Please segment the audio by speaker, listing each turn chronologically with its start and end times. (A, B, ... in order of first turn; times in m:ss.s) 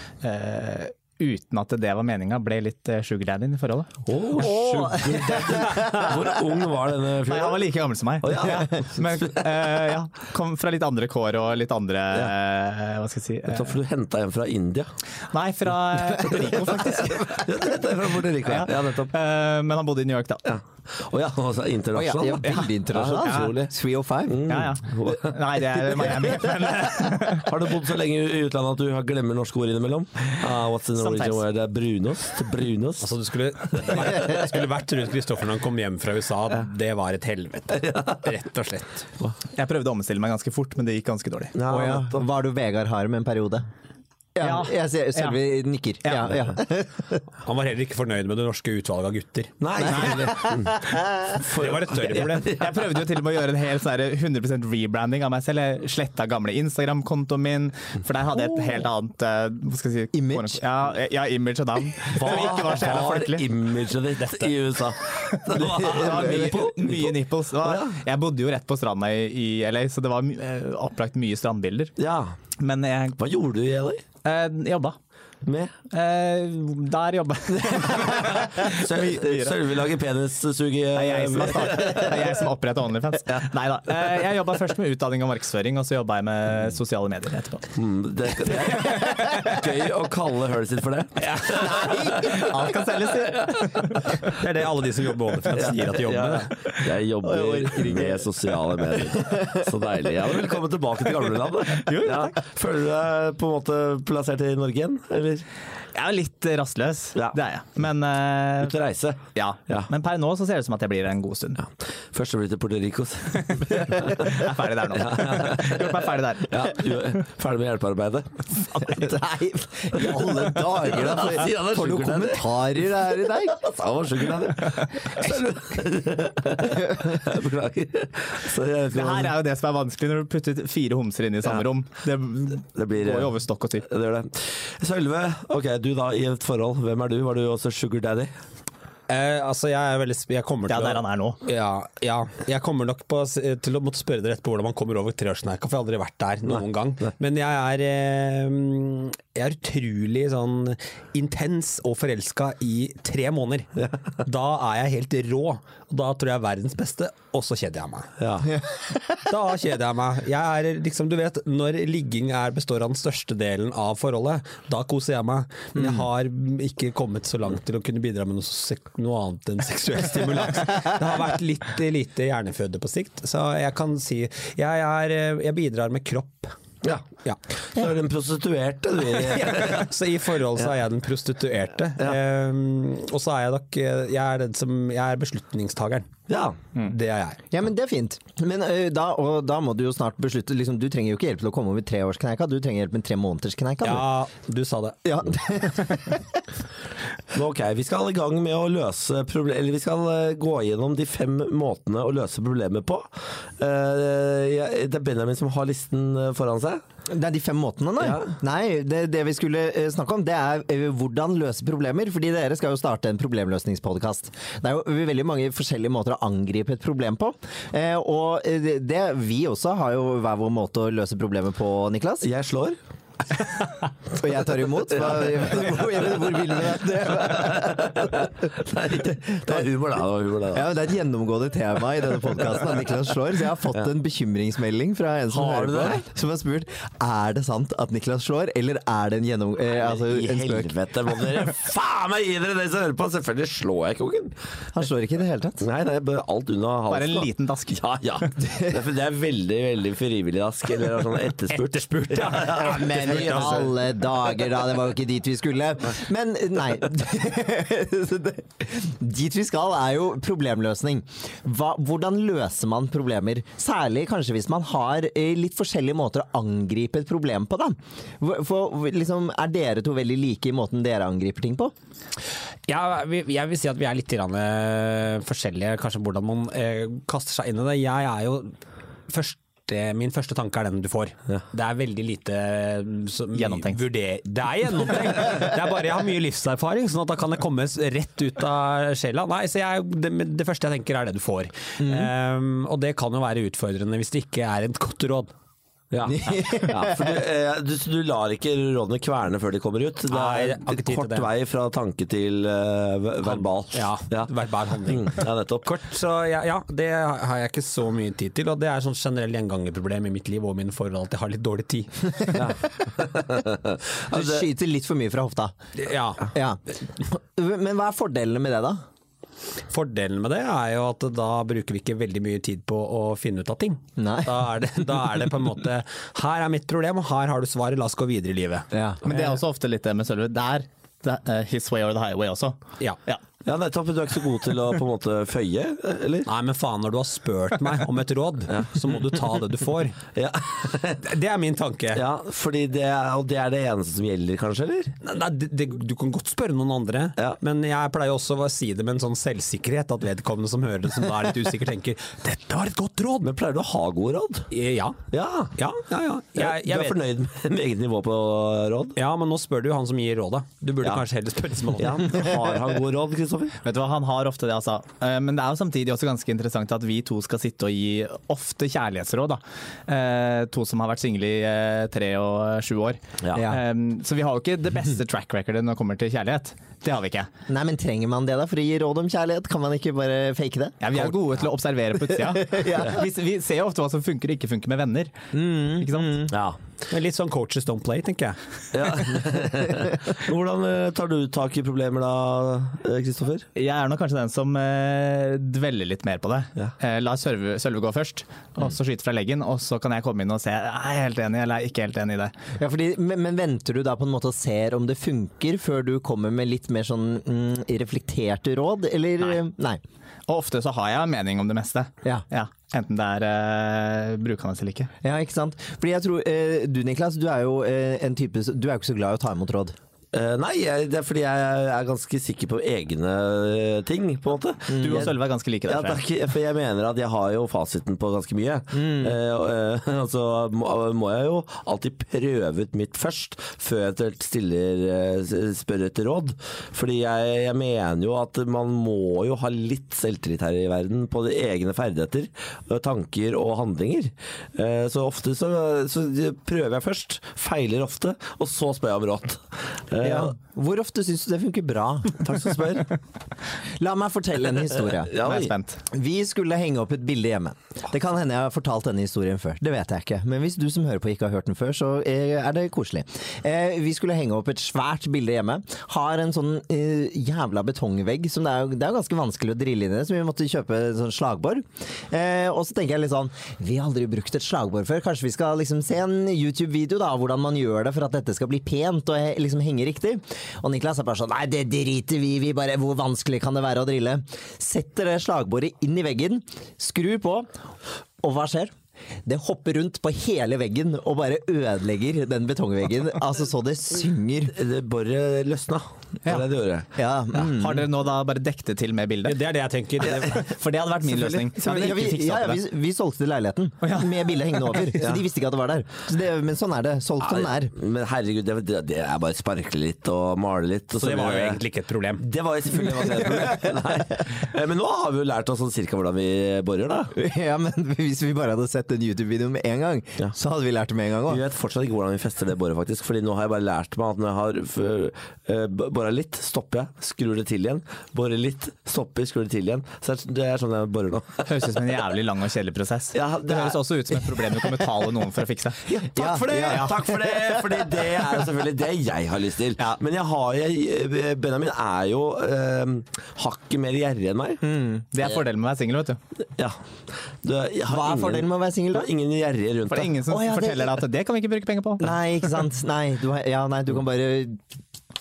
0:00.2-0:03.9 A
0:04.0-0:07.6 B
0:04.4-0:06.2 C
0:07.2-0:13.8 A
0:08.2-0:09.5 B
0:13.5-0:14.9 B
0:15.3-0:17.7 A
0:16.3-0:19.1 B
0:18.4-0:20.4 A
0:20.4-0:23.7 B
0:21.9-0:24.6 C
0:22.4-0:23.6 A
0:24.3-0:26.3 B
0:24.5-0:27.6 A
0:27.4-0:33.1 B
0:31.0-0:31.4 A
0:33.0-0:39.1 D
0:33.7-0:34.4 B
0:39.5-0:41.5 A
0:41.5-0:42.2 B
0:41.7-0:43.6 C
0:44.4-0:47.2 C
0:44.4-0:45.4 A
0:46.0-0:46.3 A
0:47.4-0:50.2 D
0:49.6-0:52.9 B
0:50.0-0:50.2 A
0:50.2-0:50.6 C
0:51.4-0:52.5 D
0:52.4-1:03.4 A
1:00.1-1:00.6 C
1:02.1-1:08.0 B
1:05.3-1:11.9 A
1:05.8-1:06.0 C
1:12.0-1:12.4 B
1:12.6-1:13.2 A
1:13.2-1:14.0 B
1:14.2-1:15.0 A
1:15.4-1:15.7 B
1:15.9-1:19.6 A
1:17.6-1:22.2 B
1:20.9-1:27.7 A
1:27.7-1:32.6 B
1:28.8-1:29.3 A
1:31.3-1:31.7 D
1:31.6-1:34.3 A
1:31.6-1:32.6 C
1:33.2-1:33.8 B
1:34.2-1:36.5 D
1:35.5-1:45.4 B
1:37.2-1:38.3 C
1:39.2-1:39.6 C
1:41.7-1:42.4 A
1:45.9-1:48.7 A
1:48.6-1:49.9 B
1:49.3-1:51.6 A
1:51.6-1:59.1 B
1:53.5-1:57.0 A
1:58.8-2:03.6 C
2:00.2-2:02.5 B
2:03.4-2:09.3 B
2:08.9-2:13.8 A
2:12.7-2:18.3 B
2:19.1-2:38.1 D
2:20.7-2:21.4 A
2:38.2-2:38.5 B
2:39.2-2:56.5 D
2:57.7-2:59.9 B
2:59.2-3:06.1 D
3:06.3-3:06.6 B
3:06.8-3:07.4 D
3:07.5-3:14.0 C
3:13.8-3:15.5 D
3:15.0-3:16.2 C
3:17.3-3:26.8 B
3:27.1-3:42.3 C
3:28.0-3:28.3 B
3:42.2-3:42.8 B
3:44.1-3:48.2 C
3:45.0-3:46.3 B
3:47.1-3:50.7 B
3:50.5-4:00.7 C
3:55.3-3:56.0 B
3:59.7-4:04.4 B
4:04.7-4:05.7 C
4:05.6-4:13.7 B
4:06.9-4:08.3 A
4:08.4-4:08.7 C
4:11.6-4:13.6 D
4:12.5-4:31.7 C
4:32.7-4:38.6 D
4:39.1-4:55.3 D
4:43.3-4:43.8 A
4:55.9-5:05.7 B
4:56.1-4:57.1 C
5:00.1-5:01.3 D
5:03.2-5:12.4 D
5:12.3-5:14.5 B
5:14.1-5:15.5 C
5:15.7-5:16.3 D
5:16.3-5:18.8 C
5:19.7-5:28.7 D
5:24.0-5:24.3 C
5:28.7-5:29.4 C
5:29.0-5:33.2 A
5:33.4-5:36.3 B
5:36.2-5:40.0 D
5:38.5-5:38.9 B
5:40.1-5:41.0 B
5:41.0-5:42.0 D
5:41.9-5:45.0 B
5:45.0-5:53.3 D
5:53.2-5:54.5 B
5:54.5-5:55.0 D
5:55.1-5:55.6 B
5:55.5-5:57.0 D
5:56.4-5:59.0 B
5:59.0-6:02.4 D
6:01.7-6:03.6 B
6:03.6-6:17.3 A
6:13.2-6:13.5 B
6:13.3-6:13.6 C
6:17.5-6:20.8 C
6:20.8-6:25.2 A
6:22.2-6:23.0 C
6:25.3-6:26.3 C
6:25.8-6:26.3 A
6:26.3-6:26.6 B
6:26.9-6:28.4 D
6:28.7-6:33.4 B
6:33.6-6:42.3 A
6:42.6-6:49.8 C
6:50.3-6:54.9 A
6:55.0-6:59.7 C
7:00.1-7:05.1 B
7:04.7-7:05.1 C
7:04.7-7:06.0 A
7:05.7-7:30.3 B
7:08.8-7:09.1 C
7:30.0-7:32.2 C
7:32.2-7:32.9 B
7:33.8-7:35.1 C
7:34.9-7:35.5 B
7:35.2-7:35.8 A
7:35.9-8:07.5 C
8:08.2-8:08.7 C
8:09.2-8:14.5 C
8:14.5-8:16.9 B
8:17.0-8:17.8 C
8:17.3-8:19.4 A
8:19.2-8:20.5 D
8:20.0-8:22.6 A
8:21.6-8:27.7 C
8:23.8-8:24.7 A
8:24.9-8:25.2 B
8:27.2-8:31.6 B
8:31.0-8:32.2 D
8:32.2-8:37.1 B
8:37.1-8:41.4 C
8:41.3-8:51.9 B
8:51.4-8:55.8 A
8:53.1-8:54.4 B
8:55.9-9:04.6 B
8:56.1-8:58.3 C
9:04.6-9:05.0 C
9:05.1-9:06.2 A
9:06.4-9:06.8 B
9:07.4-9:10.2 B
9:07.9-9:09.1 C
9:09.9-9:12.1 A
9:10.3-9:11.0 C
9:12.0-9:14.6 C